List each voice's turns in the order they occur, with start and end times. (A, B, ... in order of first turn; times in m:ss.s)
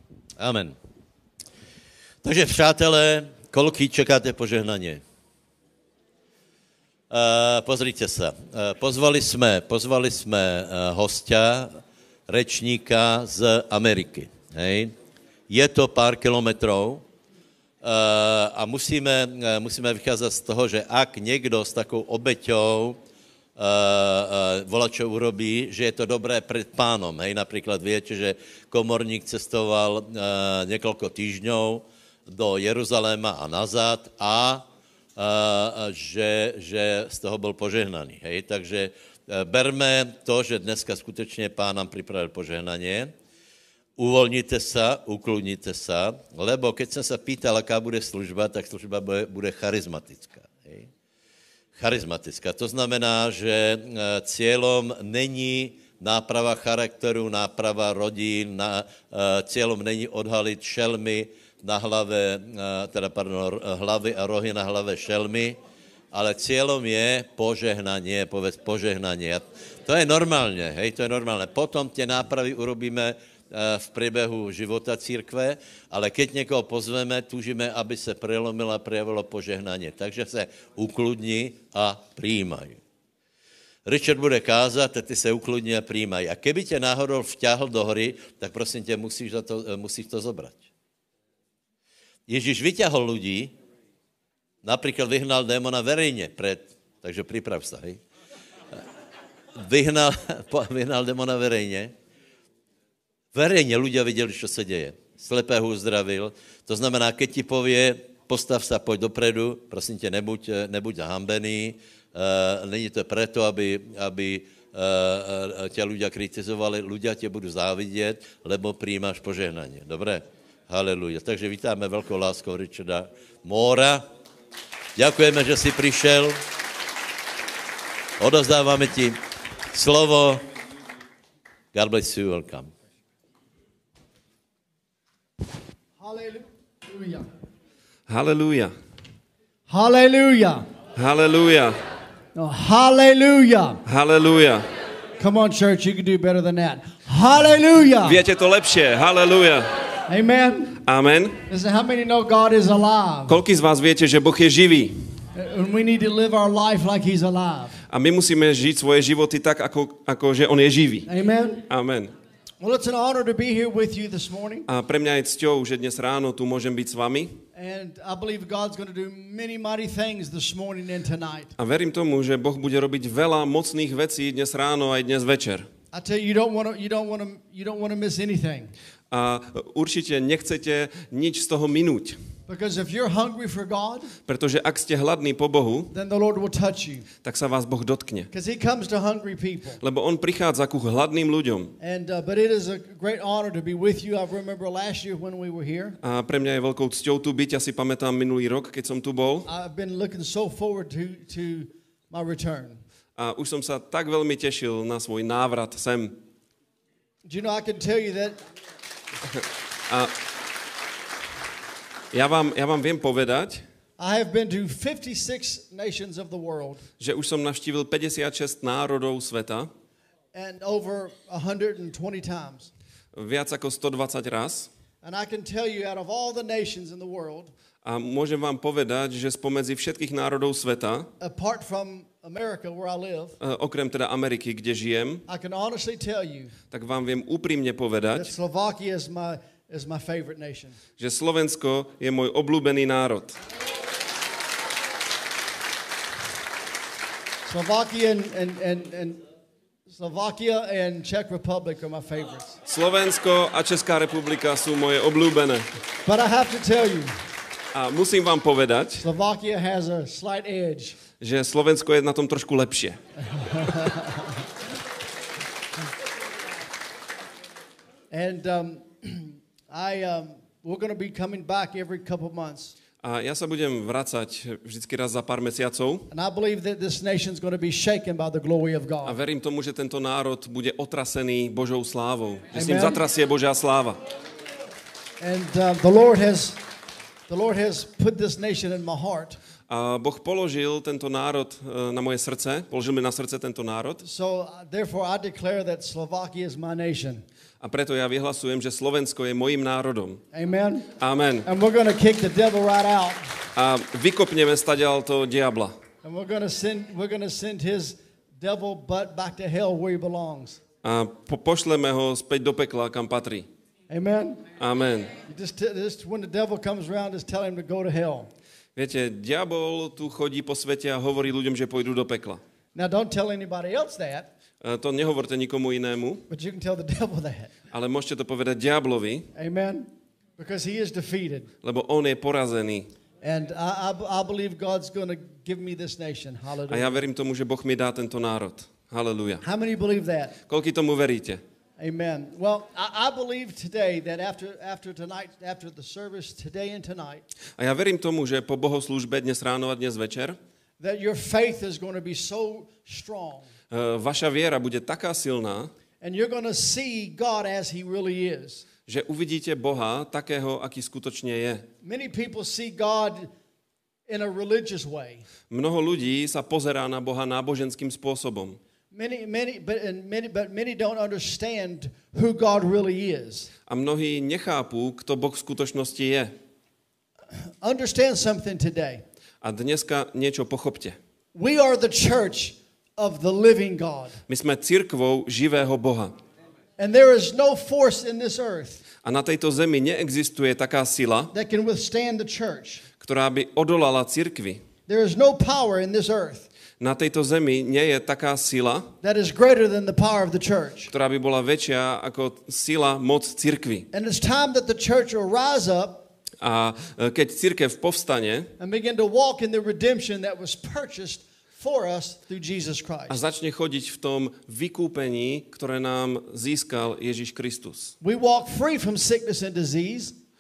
0:00.4-0:00.8 A
0:02.2-0:05.0 A
0:07.1-0:14.9 A
0:15.5-0:17.0 A
0:17.8-0:23.0 A
0:23.6-0:43.1 A
0:44.0-0:50.9 A
0:51.8-1:05.6 A
1:06.1-1:22.8 A
1:23.9-1:30.6 A
1:32.3-1:33.5 A
1:34.6-1:38.0 A
1:39.6-1:41.9 A
1:43.3-2:04.0 A
2:05.0-2:06.4 A
2:08.2-2:09.2 A
2:09.7-2:10.4 A
2:11.7-2:12.7 A
2:16.0-2:17.2 B
2:18.1-2:18.7 C
2:19.7-2:20.7 B
2:21.0-2:21.8 C
2:22.4-2:23.8 B
2:23.9-2:24.7 C
2:25.2-2:28.2 B
2:28.0-2:29.7 C
2:30.1-2:30.8 B
2:30.8-2:31.4 C
2:31.5-2:33.4 B
2:33.3-2:35.0 C
2:35.4-2:37.8 B
2:37.9-2:41.1 C
2:41.1-2:41.6 B
2:41.7-2:42.1 C
2:42.6-2:44.7 B
2:44.7-2:47.4 C
2:47.6-2:51.5 B
2:51.6-2:55.7 C
2:55.9-2:58.7 B
2:59.1-3:02.2 C
3:02.5-3:04.1 B
3:04.3-3:05.9 C
3:05.9-3:07.1 B
3:07.2-3:08.3 C
3:08.3-3:09.8 B
3:09.8-3:11.8 C
3:11.8-3:16.0 B
3:16.0-3:19.5 C
3:19.5-3:22.8 B
3:23.2-3:26.2 C
3:27.2-3:28.4 B
3:32.1-3:33.6 C
3:34.0-3:36.8 B
3:37.0-3:39.7 C
3:40.3-3:42.7 B
3:43.2-3:44.7 C
3:45.0-3:47.5 B
3:47.8-3:51.1 C
3:51.2-3:53.4 B
3:53.4-3:55.2 C
3:55.3-3:56.5 B
3:56.7-3:58.3 C
3:58.2-4:00.8 B
4:01.0-4:03.4 C
4:07.5-4:09.2 B
4:09.9-4:12.6 B
4:12.7-4:15.7 C
4:16.0-4:17.2 B
4:17.7-4:19.0 C
4:19.0-4:21.0 B
4:21.2-4:23.0 C
4:23.3-4:24.2 B
4:28.1-4:32.7 B
4:33.0-4:36.1 C
4:36.1-4:39.2 B
4:39.0-4:44.0 C
4:42.5-4:43.0 B
4:45.2-4:46.6 B
4:47.3-4:49.4 B
4:49.7-4:54.0 C
4:54.0-4:57.2 B
4:57.6-5:00.2 C
5:00.3-5:00.9 B
5:01.0-5:01.5 C
5:01.5-5:03.4 B
5:03.6-5:05.8 C
5:06.0-5:10.6 B
5:10.8-5:13.5 C
5:13.9-5:14.4 B
5:14.6-5:15.1 C
5:15.3-5:18.3 B
5:18.8-5:22.4 C
5:22.8-5:24.3 B
5:24.6-5:26.3 C
5:26.3-5:27.5 B
5:27.7-5:29.3 C
5:29.4-5:31.5 B
5:31.6-5:32.9 C
5:33.2-5:37.0 B
5:36.7-5:39.4 C
5:39.4-5:40.4 B
5:40.5-5:41.4 C
5:41.8-5:47.2 B
5:47.6-5:50.4 C
5:50.8-5:53.5 B
5:53.7-5:55.7 C
5:56.0-5:58.6 B
5:58.9-6:01.6 C
6:01.8-6:03.3 B
6:04.1-6:05.2 B
6:05.5-6:08.6 C
6:08.9-6:13.5 B
6:13.7-6:16.3 C
6:17.6-6:19.0 B
6:19.4-6:21.0 C
6:21.4-6:24.2 B
6:24.3-6:26.2 C
6:26.8-6:28.8 B
6:29.0-6:31.3 C
6:31.3-6:32.8 B
6:33.0-6:34.6 C
6:34.9-6:36.5 B
6:36.8-6:38.9 C
6:39.0-6:40.9 B
6:40.9-6:43.9 C
6:43.9-6:46.0 B
6:46.4-6:48.5 C
6:48.6-6:53.2 B
6:53.1-6:57.9 C
6:58.0-7:00.2 B